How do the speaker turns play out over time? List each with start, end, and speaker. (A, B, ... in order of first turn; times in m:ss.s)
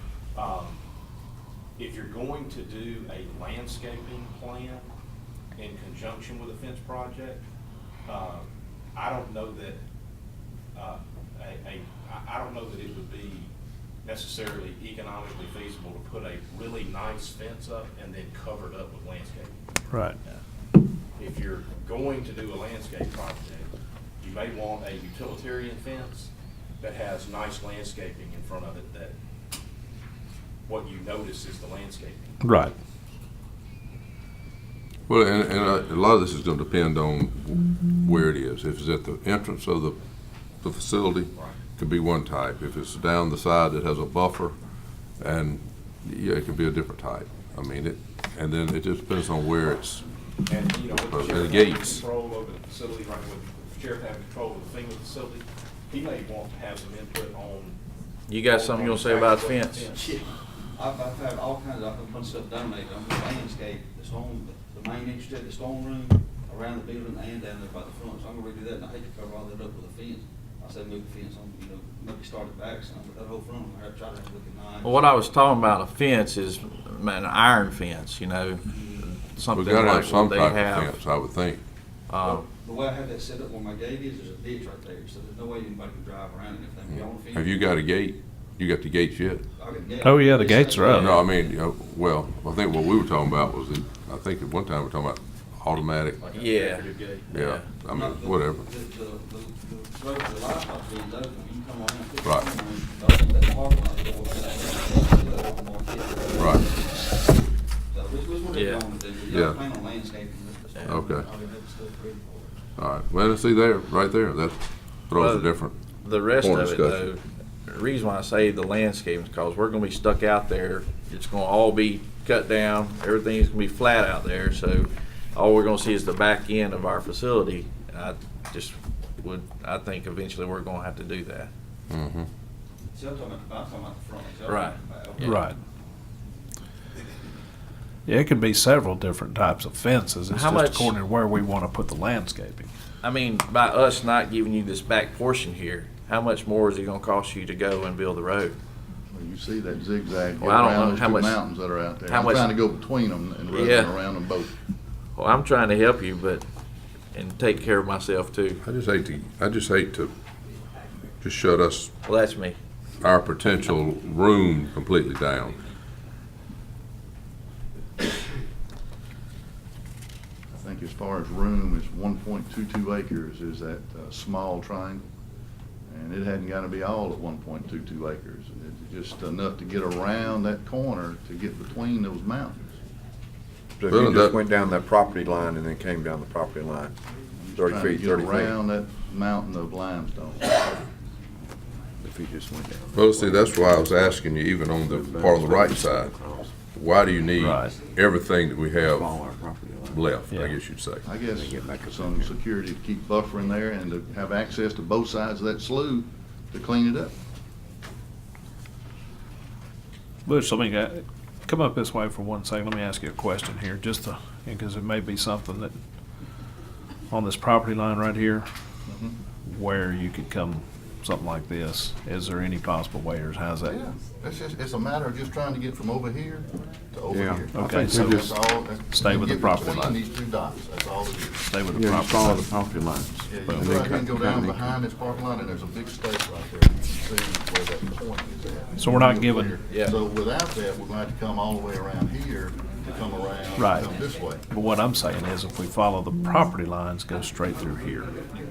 0:00.3-0:00.8 A
0:01.8-0:04.9 A
0:05.6-0:07.4 A
0:08.0-0:09.8 A
0:10.7-0:13.5 A
0:14.0-0:19.6 A
0:19.9-0:20.2 B
0:21.2-0:23.7 A
0:24.2-0:29.1 A
0:30.6-0:32.4 A
0:32.4-0:32.7 B
0:35.1-0:40.0 C
0:40.6-0:44.6 C
0:45.2-0:50.0 C
0:50.5-0:57.8 A
0:51.0-0:52.0 C
0:58.3-0:59.8 D
0:58.4-1:00.1 A
0:59.9-1:15.2 E
1:14.8-1:21.0 D
1:18.7-1:19.0 E
1:19.5-1:21.6 C
1:22.1-1:22.4 D
1:22.2-1:27.8 E
1:27.3-1:29.4 C
1:29.5-1:31.5 E
1:30.0-1:31.1 B
1:30.9-1:31.2 D
1:31.0-1:36.2 C
1:36.2-1:37.3 A
1:36.3-1:37.7 D
1:37.3-1:38.6 C
1:37.9-1:47.2 E
1:42.2-1:42.5 C
1:46.4-1:46.6 C
1:47.9-1:52.5 E
1:48.5-1:48.8 D
1:49.3-1:49.6 C
1:50.8-1:51.3 C
1:52.8-1:55.7 C
1:55.1-2:11.5 D
1:56.3-1:57.1 C
2:11.9-2:12.3 C
2:12.9-2:15.4 E
2:14.4-2:15.4 D
2:15.2-2:15.6 B
2:18.0-2:22.7 B
2:20.3-2:20.9 D
2:23.0-2:28.6 D
2:29.1-2:34.5 F
2:30.4-2:31.4 D
2:32.1-2:32.5 D
2:33.5-2:34.0 D
2:35.2-2:36.4 D
2:37.1-2:38.6 D
2:38.6-2:40.1 C
2:41.2-2:41.9 C
2:42.0-2:42.6 D
2:43.0-2:45.6 C
2:50.5-2:55.0 F
2:55.9-3:02.7 F
3:03.8-3:06.9 G
3:03.9-3:04.4 C
3:07.4-3:10.8 F
3:07.6-3:08.6 G
3:12.0-3:14.2 G
3:12.9-3:16.1 C
3:14.8-3:16.6 G
3:16.7-3:19.1 C
3:17.4-3:17.8 B
3:18.8-3:20.1 G
3:19.9-3:21.0 C
3:20.3-3:20.6 B
3:21.0-3:27.1 F
3:21.2-3:22.4 G
3:30.2-3:35.7 B
3:37.1-3:38.5 B
3:38.9-3:39.1 F
3:39.4-3:43.8 B
3:43.6-3:51.4 F
3:47.1-3:48.4 G
3:47.5-3:50.0 B
3:51.5-3:52.5 B
3:51.7-3:54.8 G
3:53.3-4:04.4 F
3:53.3-3:53.7 B
3:58.8-3:59.6 B
4:03.6-4:03.9 B
4:04.5-4:08.1 B